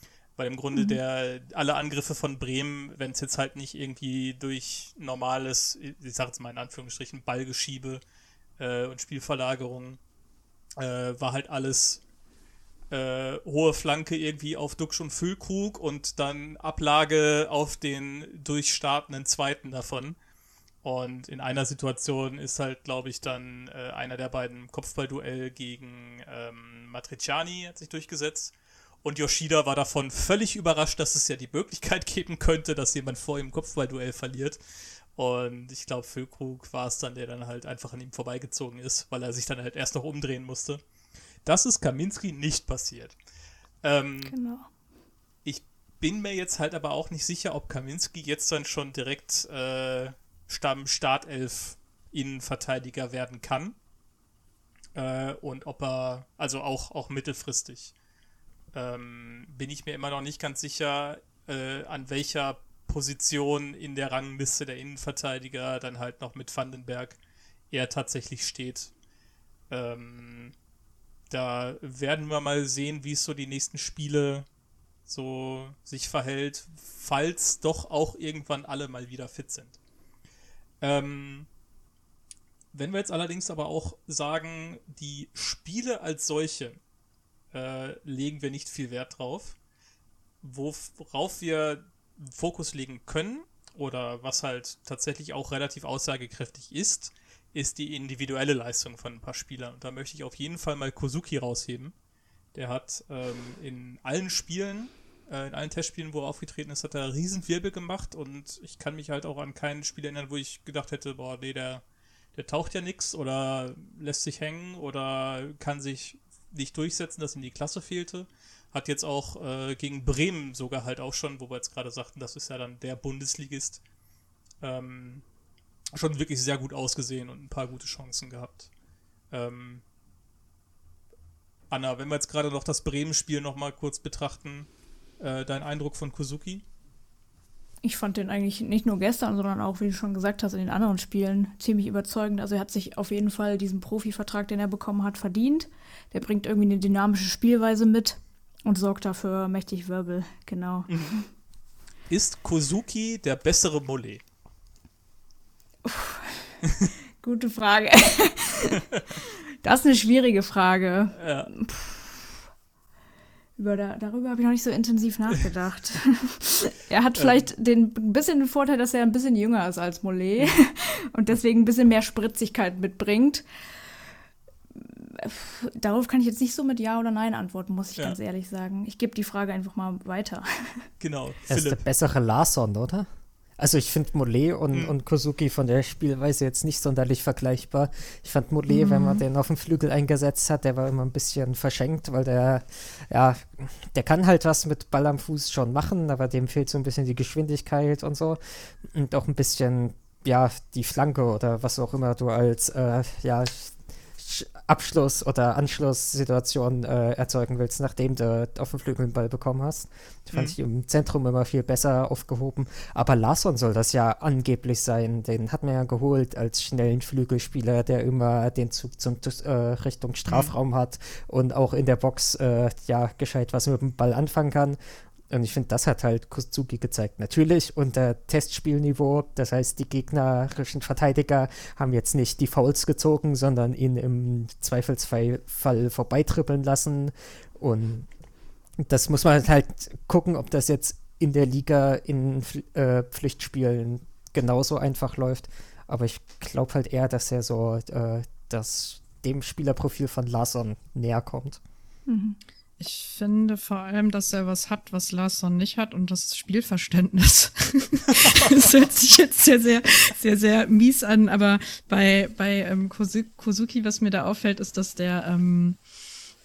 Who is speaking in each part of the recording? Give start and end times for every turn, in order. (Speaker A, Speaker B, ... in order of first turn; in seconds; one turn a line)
Speaker A: 0.4-8.0
Speaker B: 0.7-1.0
Speaker A: 8.6-10.0
Speaker A: 10.8-12.0
Speaker A: 12.9-20.2
Speaker A: 20.8-28.5
Speaker A: 29.0-34.6
Speaker A: 35.1-40.8
Speaker A: 41.4-43.1
Speaker A: 43.8-44.3
Speaker B: 44.2-44.7
Speaker A: 45.4-53.8
Speaker A: 54.9-57.9
Speaker A: 58.7-67.2
Speaker A: 67.7-68.9
Speaker A: 69.7-70.5
Speaker A: 71.3-74.5
Speaker A: 75.1-79.8
Speaker A: 80.8-81.5
Speaker A: 82.7-86.8
Speaker A: 87.5-89.5
Speaker A: 90.4-101.9
Speaker A: 102.5-111.8
Speaker A: 112.3-123.8
Speaker A: 124.6-125.2
Speaker A: 125.9-128.7
Speaker A: 129.3-129.8
Speaker A: 131.7-134.7
Speaker A: 135.2-136.6
Speaker B: 137.8-151.2
Speaker A: 150.9-151.2
Speaker A: 152.1-154.2
Speaker B: 155.8-156.5
Speaker B: 157.2-158.8
Speaker B: 159.6-162.0
Speaker A: 161.2-161.5
Speaker B: 163.6-173.4
Speaker A: 167.1-167.5
Speaker B: 174.8-180.9
Speaker A: 181.0-181.8
Speaker C: 181.5-183.1
Speaker C: 183.6-224.8
Speaker D: 188.7-189.2
Speaker C: 225.3-238.1
Speaker C: 238.8-251.6
Speaker B: 252.1-252.4
Speaker D: 252.8-265.8